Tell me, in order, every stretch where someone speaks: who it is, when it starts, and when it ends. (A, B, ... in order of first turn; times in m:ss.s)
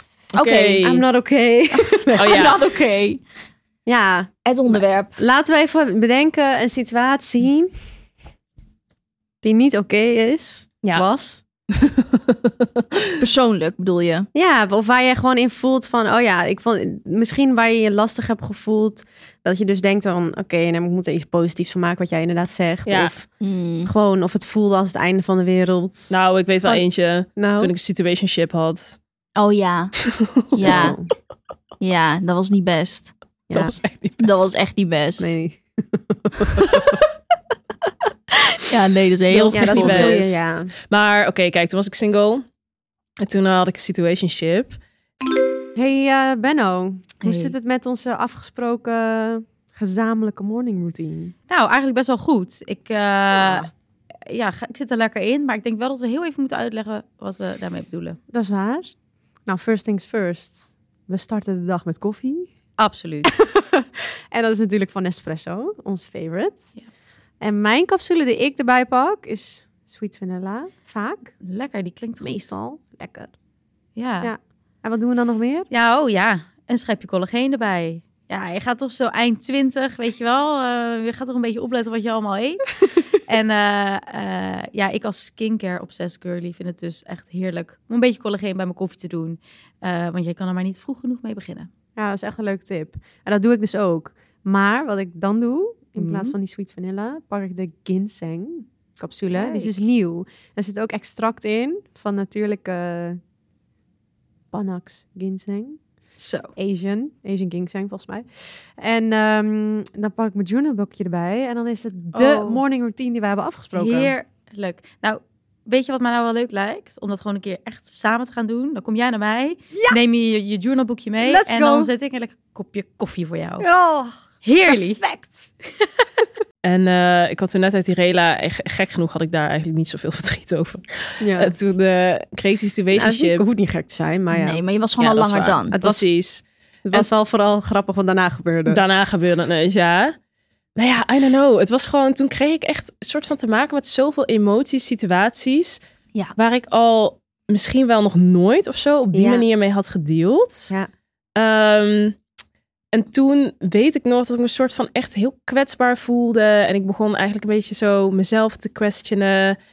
0:00.3-0:01.0 A
0:00.4-0:02.4 B
0:01.7-0:03.2 C
0:02.2-0:02.6 A
0:03.8-0:07.7 B
0:04.4-0:05.2 C
0:09.4-0:11.4 B
0:11.8-0:13.0 A
0:13.2-0:14.3 C
0:14.3-0:23.3 B
0:22.8-0:23.1 A
0:23.4-0:23.9 C
0:23.8-0:26.8 B
0:26.1-0:29.0 A
0:27.4-0:27.7 B
0:29.4-0:30.0 C
0:30.4-0:30.9 A
0:30.5-0:31.0 C
0:30.5-0:31.1 B
0:31.8-0:33.1 C
0:33.5-0:34.5 A
0:34.2-0:35.3 C
0:35.2-0:37.0 B
0:38.3-0:40.2 C
0:39.3-0:42.4 A
0:39.5-0:40.7 B
0:43.2-0:44.8 A
0:45.7-0:51.3 B
0:51.5-0:53.7 D
0:53.4-0:53.7 B
0:54.3-0:58.2 D
0:58.3-0:58.9 B
0:59.5-1:02.5 B
1:02.8-1:03.3 D
1:03.3-1:06.7 B
1:07.4-1:11.3 B
1:11.4-1:12.6 D
1:12.2-1:13.3 B
1:14.0-1:14.3 D
1:14.2-1:15.7 B
1:15.7-1:31.7 D
1:32.0-1:38.7 B
1:36.0-1:36.3 D
1:39.0-1:39.9 D
1:39.3-1:43.2 B
1:44.5-1:45.8 B
1:46.2-1:46.5 D
1:46.6-1:54.1 B
1:52.1-1:52.6 D
1:53.7-2:03.7 D
1:59.7-2:00.0 B
2:01.2-2:01.9 B
2:03.6-2:05.0 B
2:04.5-2:05.5 D
2:06.6-2:13.4 A
2:11.2-2:11.5 B
2:12.9-2:14.6 B
2:14.3-2:15.8 C
2:15.0-2:16.4 A
2:15.8-2:16.0 B
2:16.8-2:18.8 B
2:18.7-2:20.1 A
2:20.8-2:25.8 A
2:26.4-2:30.7 A
2:29.1-2:29.4 B
2:31.4-2:32.2 A
2:32.9-2:39.6 A